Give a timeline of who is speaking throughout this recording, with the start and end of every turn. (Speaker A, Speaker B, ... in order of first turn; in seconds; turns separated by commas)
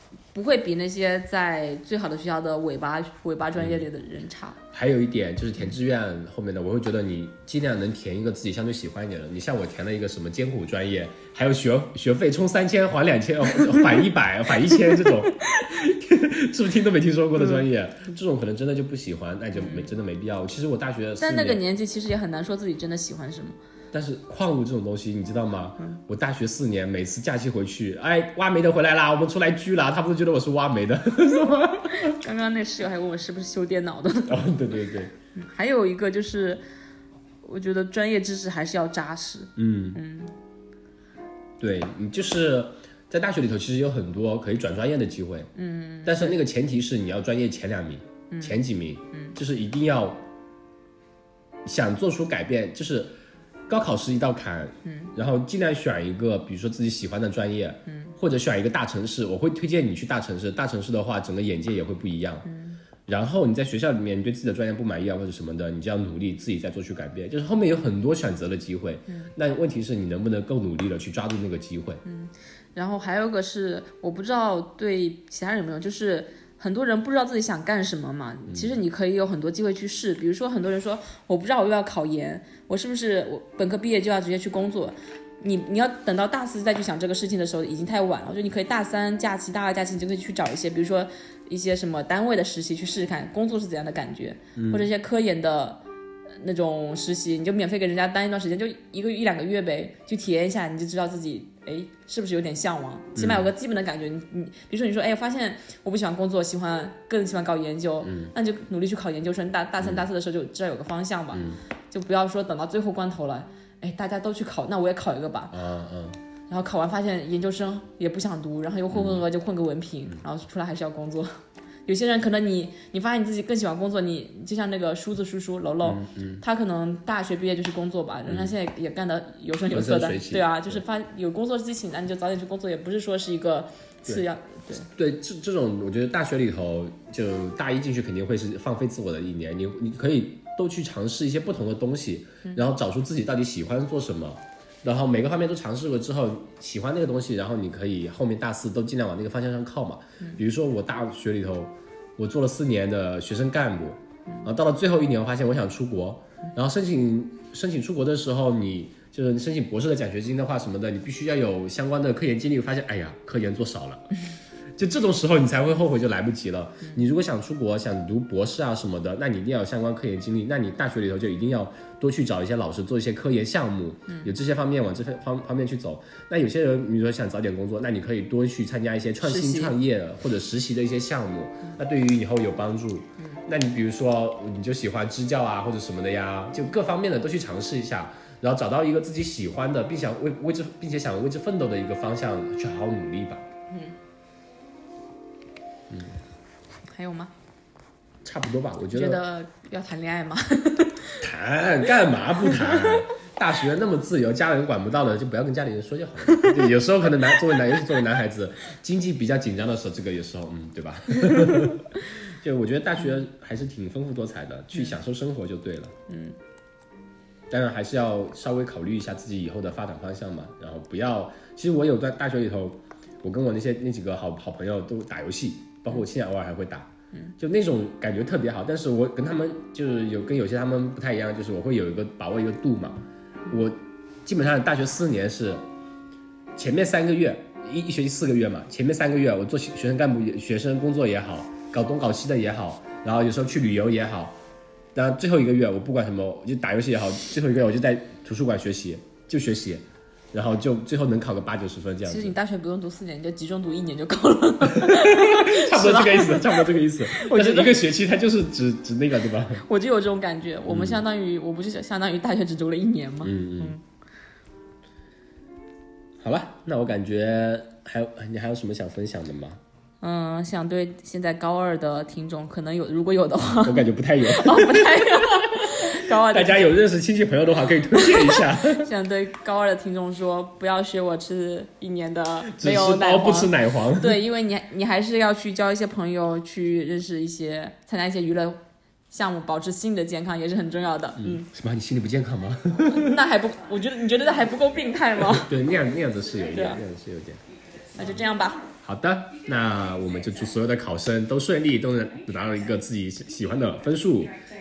Speaker A: 0.3-4.6, Speaker B: 3.6-3.8, Speaker B: 4.7-21.6, Speaker A: 14.7-15.2, Speaker A: 17.4-17.6, Speaker A: 19.6-19.9, Speaker A: 21.2-23.6, Speaker B: 23.9-32.2, Speaker A: 32.0-34.5, Speaker B: 34.3-35.1, Speaker A: 35.3-36.6, Speaker A: 37.4-40.3, Speaker B: 39.6-40.0, Speaker B: 41.6-45.5, Speaker A: 45.6-46.4, Speaker B: 46.0-50.2, Speaker A: 48.3-48.6, Speaker B: 51.7-53.1, Speaker B: 53.7-62.5, Speaker A: 54.9-55.1, Speaker A: 62.5-62.8, Speaker B: 63.1-72.0, Speaker A: 72.0-95.8, Speaker B: 78.5-78.8, Speaker B: 94.6-94.9, Speaker A: 96.4-115.5, Speaker B: 103.2-103.5, Speaker B: 108.0-108.3, Speaker B: 109.8-110.1, Speaker B: 111.3-111.6, Speaker B: 115.5-116.2, Speaker A: 116.5-121.3, Speaker B: 118.9-119.2, Speaker A: 121.9-134.9, Speaker B: 125.8-126.4, Speaker B: 128.3-128.5, Speaker B: 129.7-130.8, Speaker B: 134.9-164.1, Speaker B: 164.8-193.5, Speaker A: 179.2-179.8, Speaker A: 193.7-193.9, Speaker B: 195.9-196.2, Speaker A: 196.9-197.3, Speaker B: 198.2-199.2, Speaker A: 198.9-201.2, Speaker B: 201.2-215.9, Speaker A: 202.4-203.0, Speaker A: 206.3-206.7, Speaker A: 207.5-207.8, Speaker A: 211.2-211.8, Speaker A: 216.1-216.4, Speaker B: 217.5-235.6, Speaker B: 236.6-244.4, Speaker B: 244.9-252.3, Speaker A: 252.1-257.8, Speaker B: 254.7-259.6, Speaker A: 259.6-263.8, Speaker B: 260.7-261.0, Speaker B: 263.2-263.8, Speaker B: 266.2-269.6, Speaker A: 270.0-276.8, Speaker B: 273.6-278.9, Speaker A: 277.9-288.6, Speaker B: 282.5-284.2, Speaker A: 289.1-291.4, Speaker B: 291.2-293.2, Speaker A: 292.9-295.6, Speaker B: 295.2-297.4, Speaker A: 296.5-296.8, Speaker A: 297.9-298.7, Speaker B: 298.8-304.4